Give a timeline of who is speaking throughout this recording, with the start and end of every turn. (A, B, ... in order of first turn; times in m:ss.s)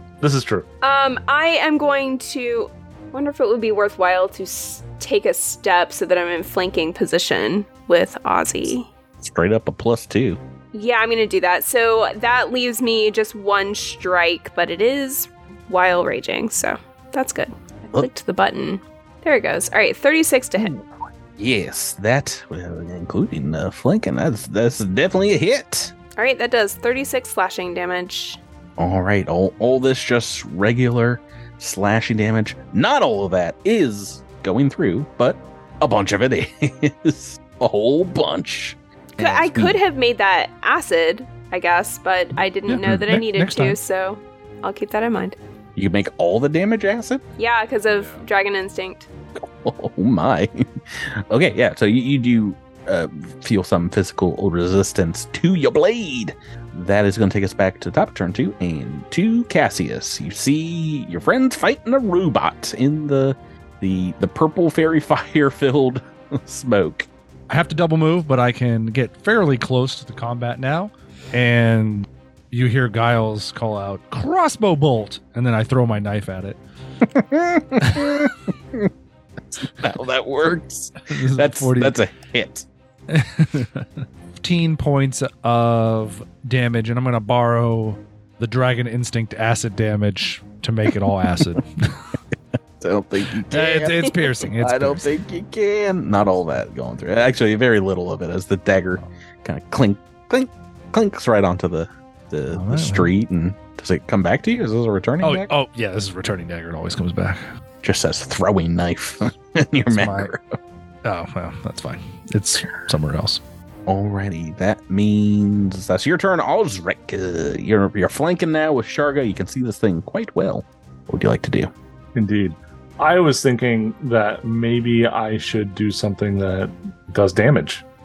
0:00.2-0:00.7 A
0:00.8-0:08.9 B
0:09.2-0:10.4 C
0:10.7-0:20.8 B
0:20.6-0:20.9 C
0:21.4-0:25.9 C
0:26.2-0:28.4 B
0:28.8-0:39.8 C
0:39.2-0:45.4 B
0:42.7-0:43.8 D
0:45.8-0:47.2 C
0:47.4-0:49.1 B
0:49.4-1:07.1 C
1:07.5-1:16.6 D
1:17.1-1:18.9 C
1:17.8-1:18.1 D
1:19.5-1:22.7 C
1:21.1-1:22.0 D
1:23.1-1:32.0 D
1:32.8-1:45.5 C
1:33.5-1:35.0 D
1:42.5-1:43.1 D
1:45.2-1:47.4 D
1:47.8-1:50.6 C
1:49.9-1:50.3 D
1:51.0-1:53.4 D
1:53.9-2:01.7 C
2:02.2-2:07.8 A